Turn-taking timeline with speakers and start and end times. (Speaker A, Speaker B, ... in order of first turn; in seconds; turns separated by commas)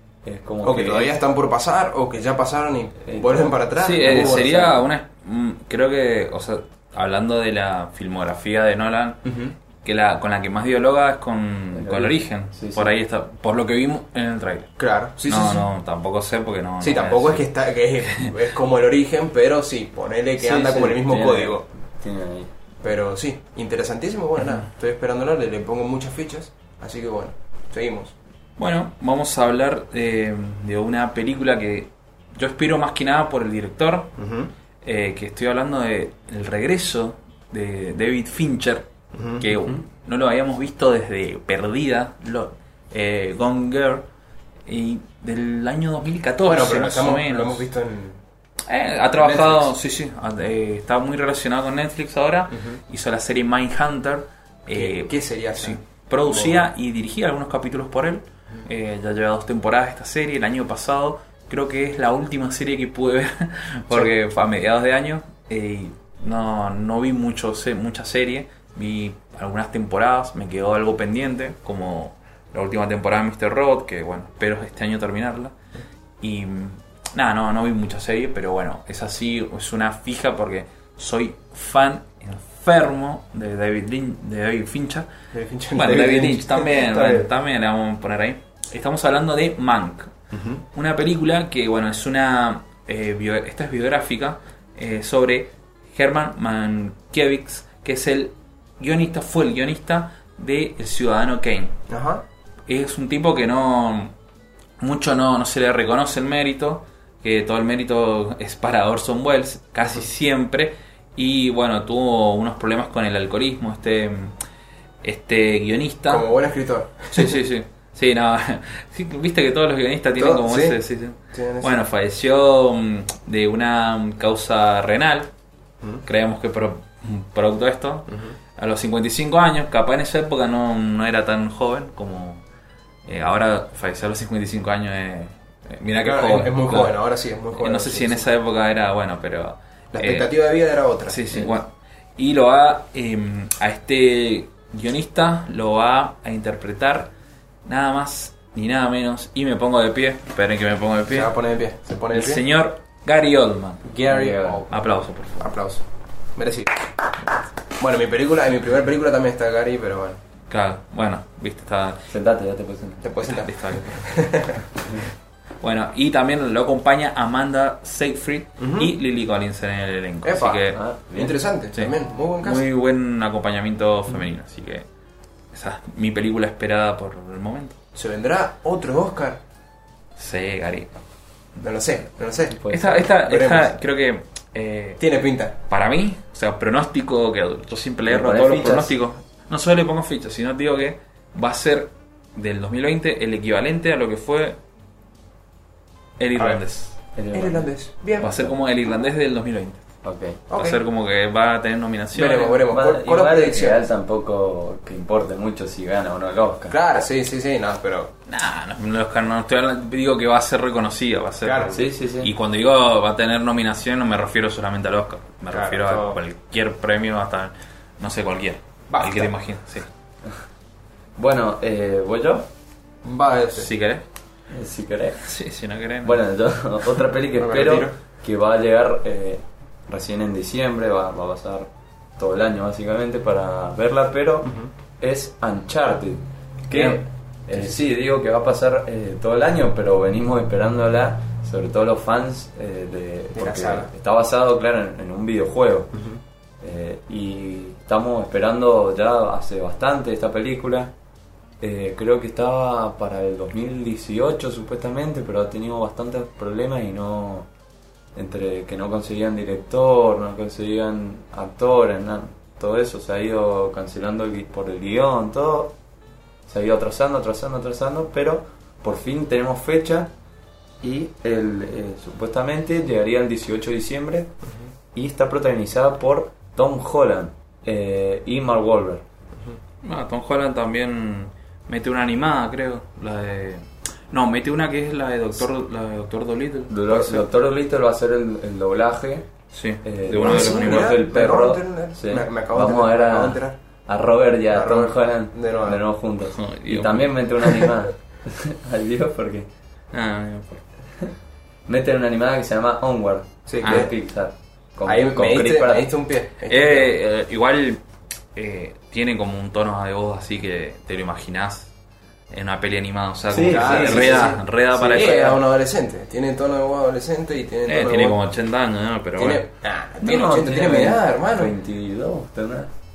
Speaker A: 0.2-1.1, Speaker B: 0.6-4.8, Speaker A: 3.1-3.5, Speaker C: 3.8-9.3, Speaker B: 9.2-9.5, Speaker C: 9.8-14.7, Speaker A: 11.7-12.9, Speaker B: 14.8-15.7, Speaker C: 15.2-17.5, Speaker B: 16.8-21.6, Speaker C: 18.0-18.3, Speaker A: 20.4-22.5, Speaker B: 22.8-28.1, Speaker C: 28.6-34.1, Speaker B: 34.2-34.5, Speaker C: 34.8-44.0, Speaker B: 39.1-39.4, Speaker C: 44.6-47.7, Speaker B: 46.5-48.2, Speaker C: 48.7-75.5, Speaker B: 49.2-49.7, Speaker B: 54.7-56.6, Speaker C: 76.2-85.1, Speaker B: 85.3-87.3, Speaker C: 85.7-90.1, Speaker B: 90.3-90.6, Speaker C: 90.7-101.8, Speaker B: 101.9-102.2, Speaker C: 102.7-104.1, Speaker C: 104.8-114.3, Speaker C: 115.0-116.3, Speaker B: 116.1-117.4, Speaker C: 117.1-125.3, Speaker B: 120.2-120.8, Speaker B: 121.3-121.8, Speaker C: 126.0-132.4, Speaker B: 128.1-128.3, Speaker C: 133.1-137.0, Speaker B: 136.0-138.2, Speaker C: 137.6-140.3, Speaker B: 139.9-141.2, Speaker C: 141.1-147.1, Speaker C: 147.6-151.3, Speaker B: 151.1-152.4, Speaker C: 152.1-153.8, Speaker B: 153.8-154.8, Speaker A: 154.1-154.6, Speaker C: 154.7-155.5, Speaker B: 155.4-155.8, Speaker B: 156.3-156.9, Speaker B: 157.8-160.2, Speaker C: 160.5-162.1, Speaker A: 162.1-163.1, Speaker B: 163.0-164.6, Speaker C: 163.3-164.1, Speaker C: 165.6-170.8, Speaker B: 168.6-168.9, Speaker B: 170.2-172.6, Speaker A: 170.7-171.4, Speaker C: 171.7-174.8, Speaker C: 175.5-177.8, Speaker B: 177.9-179.4, Speaker C: 180.2-181.0, Speaker B: 181.6-183.8, Speaker A: 182.5-183.1, Speaker C: 182.7-185.0, Speaker B: 185.0-185.6, Speaker C: 185.7-194.6, Speaker A: 188.1-188.9, Speaker C: 196.2-197.0, Speaker B: 196.4-196.6, Speaker A: 197.2-198.5, Speaker B: 197.3-198.3, Speaker C: 198.2-199.9, Speaker A: 200.0-200.4, Speaker B: 200.5-200.8, Speaker C: 200.5-202.6, Speaker B: 202.1-203.8, Speaker A: 202.7-206.8, Speaker B: 206.7-208.1, Speaker C: 208.3-219.9, Speaker B: 211.4-211.8, Speaker A: 211.7-212.3, Speaker B: 215.5-216.2, Speaker B: 218.9-219.3, Speaker A: 221.2-222.5, Speaker B: 223.0-223.7, Speaker C: 223.5-224.0, Speaker A: 224.5-225.3, Speaker C: 225.2-226.2, Speaker A: 226.0-245.9, Speaker B: 227.3-227.9, Speaker B: 234.4-234.7, Speaker B: 236.7-237.0, Speaker B: 237.5-237.8, Speaker B: 243.3-243.9, Speaker A: 246.6-250.9, Speaker A: 251.6-257.5, Speaker A: 258.1-265.8, Speaker A: 266.5-270.1, Speaker A: 270.8-274.3, Speaker A: 274.9-279.0, Speaker C: 279.8-287.2, Speaker A: 286.7-289.3, Speaker C: 289.5-291.0, Speaker A: 289.8-299.5, Speaker B: 290.2-293.6, Speaker B: 294.5-295.8, Speaker C: 296.3-297.1, Speaker C: 299.9-300.6, Speaker A: 301.7-305.9, Speaker B: 303.5-303.9, Speaker C: 303.6-303.9, Speaker B: 304.8-306.9, Speaker C: 306.4-307.8, Speaker C: 308.3-311.7, Speaker C: 312.3-315.3, Speaker A: 313.3-315.4, Speaker B: 313.4-318.2, Speaker C: 317.6-319.4, Speaker B: 319.2-321.5, Speaker A: 320.0-322.7